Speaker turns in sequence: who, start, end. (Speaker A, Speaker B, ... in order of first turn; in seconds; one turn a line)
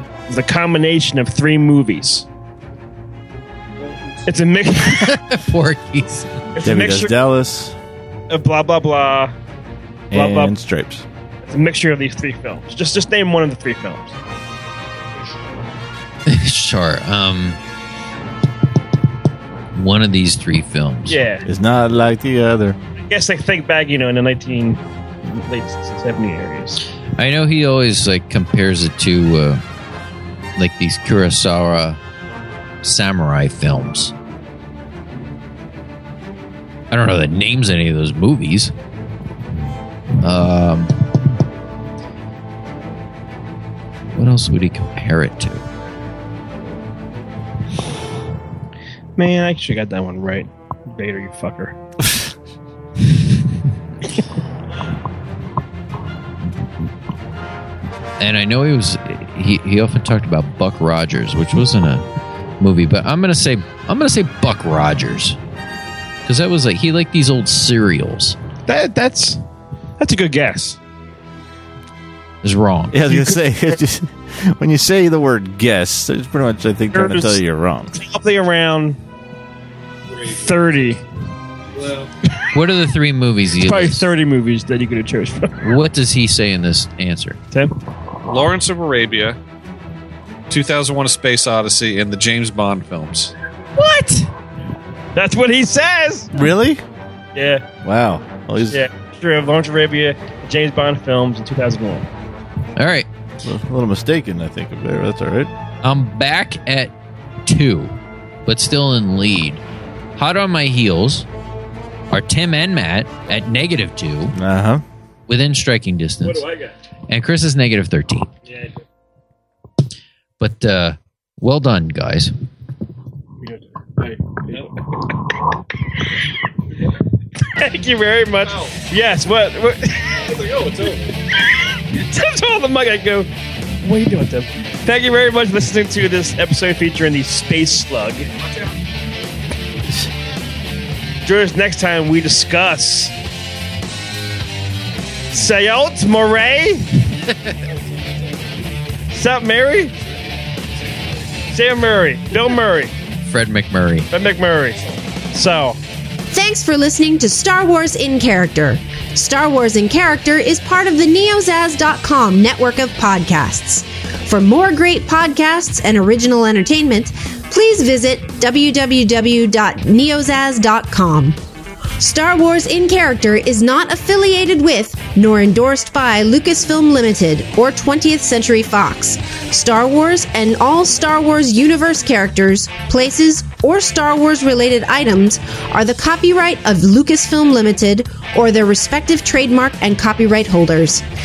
Speaker A: 0.3-2.2
Speaker B: 3.8-4.3
Speaker A: 4.3-5.2
Speaker C: 5.1-6.4
Speaker A: 6.5-7.1
Speaker D: 6.6-7.8
Speaker A: 8.3-9.3
Speaker D: 10.1-11.0
Speaker A: 10.1-10.6
Speaker A: 11.4-14.1
Speaker C: 16.3-17.6
Speaker C: 19.7-21.2
Speaker A: 21.1-21.5
Speaker D: 21.4-22.8
Speaker A: 23.0-26.8
Speaker C: 27.2-29.6
Speaker C: 30.6-32.0
Speaker C: 32.8-34.1
Speaker C: 36.9-38.7
Speaker C: 40.2-40.9
Speaker C: 44.1-45.6
Speaker A: 49.2-51.8
Speaker C: 58.2-62.1
Speaker C: 62.6-65.4
Speaker C: 66.2-68.4
Speaker A: 68.7-69.4
Speaker A: 70.0-70.8
Speaker C: 72.4-73.0
Speaker D: 72.9-77.9
Speaker A: 73.1-73.3
Speaker A: 76.9-77.4
Speaker A: 77.9-79.0
Speaker B: 80.1-81.1
Speaker A: 80.2-81.0
Speaker B: 81.7-82.1
Speaker C: 82.5-84.0
Speaker A: 83.6-85.7
Speaker C: 85.6-87.4
Speaker B: 88.2-89.4
Speaker B: 90.5-93.3
Speaker A: 93.8-94.3
Speaker A: 95.1-96.4
Speaker D: 96.3-96.8
Speaker A: 97.3-97.6
Speaker D: 97.8-98.8
Speaker A: 98.7-102.1
Speaker C: 102.8-103.1
Speaker D: 103.4-105.5
Speaker C: 105.8-106.9
Speaker C: 107.4-109.6
Speaker C: 110.2-111.3
Speaker C: 112.1-114.3
Speaker D: 114.3-114.8
Speaker C: 115.3-116.4
Speaker A: 116.2-116.8
Speaker C: 117.1-118.3
Speaker A: 118.4-118.8
Speaker C: 120.4-122.3
Speaker A: 123.4-125.1
Speaker A: 127.4-130.2
Speaker B: 128.4-128.8
Speaker B: 130.1-131.2
Speaker A: 131.3-138.3
Speaker B: 138.4-138.9
Speaker A: 141.2-143.1
Speaker A: 145.3-147.1
Speaker B: 147.6-148.8
Speaker A: 149.1-149.9
Speaker B: 150.0-151.7
Speaker A: 151.5-152.9
Speaker C: 153.2-154.1
Speaker A: 154.1-154.8
Speaker A: 155.3-155.8
Speaker E: 156.3-171.4
Speaker E: 172.0-191.0